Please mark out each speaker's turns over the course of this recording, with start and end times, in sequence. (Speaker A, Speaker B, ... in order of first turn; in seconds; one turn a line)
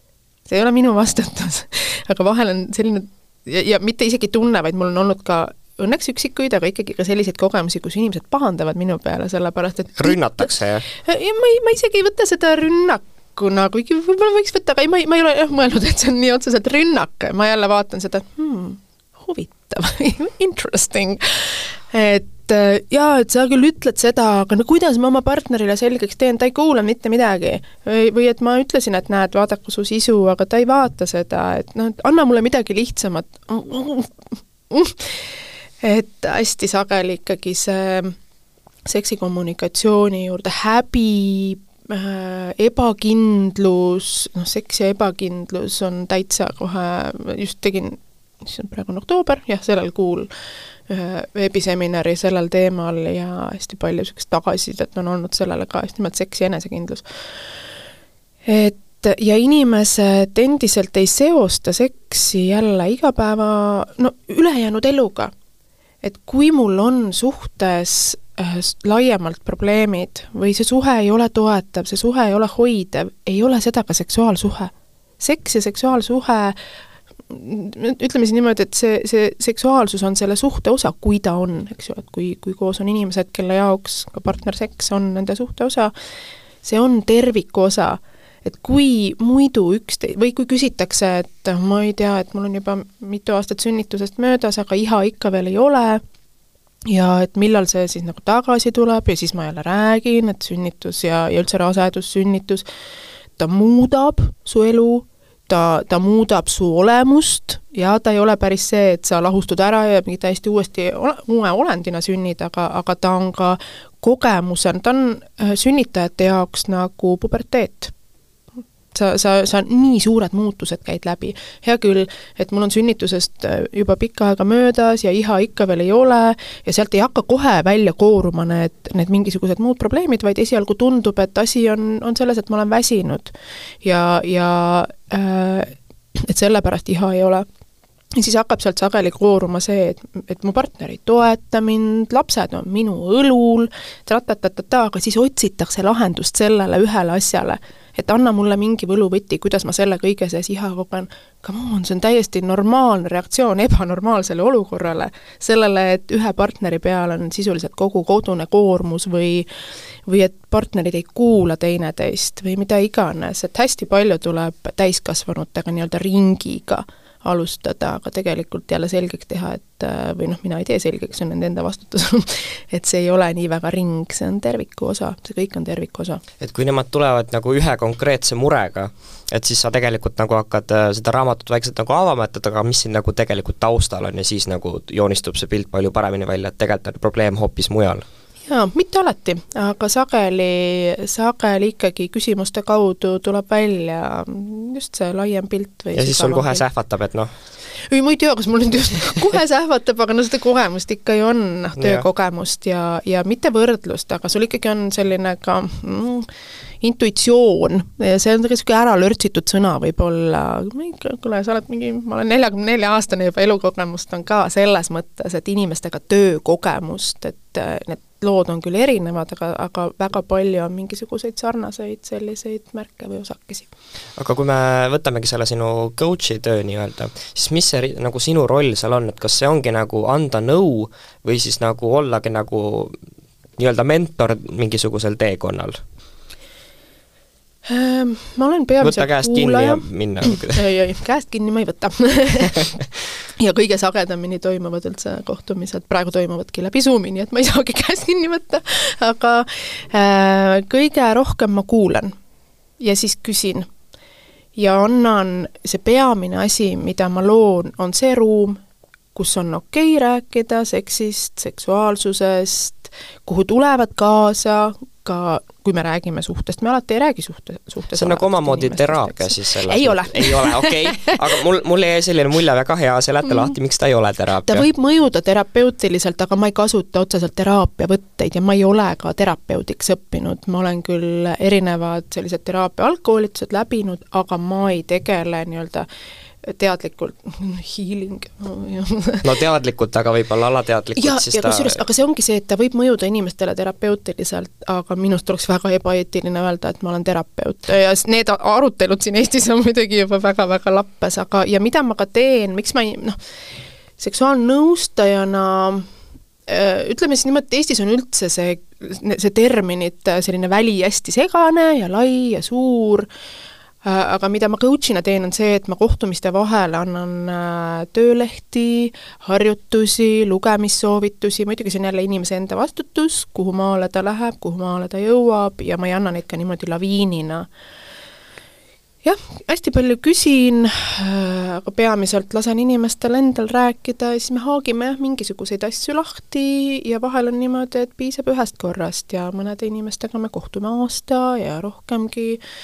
Speaker A: 0.5-38.1
Speaker B: 10.0-10.8
Speaker A: 38.9-50.3
Speaker A: 50.9-57.0
Speaker A: 58.5-65.3
Speaker A: 66.0-76.6
Speaker A: 77.3-85.9
Speaker A: 86.6-96.0
Speaker A: 96.9-102.6
Speaker A: 103.4-117.9
Speaker A: 118.9-137.4
Speaker A: 138.2-159.4
Speaker A: 160.1-176.2
Speaker B: 176.4-188.0
Speaker A: 188.5-196.6
Speaker B: 195.9-197.3
Speaker A: 197.9-206.3
Speaker B: 201.8-202.0
Speaker A: 206.8-223.7
Speaker B: 224.2-232.9
Speaker B: 233.6-235.8
Speaker A: 237.7-242.7
Speaker B: 238.8-240.6
Speaker A: 243.4-252.1
Speaker A: 252.8-253.7
Speaker A: 254.6-258.6
Speaker A: 259.1-271.2
Speaker B: 267.9-274.7
Speaker A: 274.5-285.9
Speaker A: 286.4-289.3
Speaker B: 289.2-291.8
Speaker A: 290.9-303.2
Speaker A: 304.0-305.9
Speaker A: 306.5-313.1
Speaker A: 313.8-327.5
Speaker A: 329.0-342.4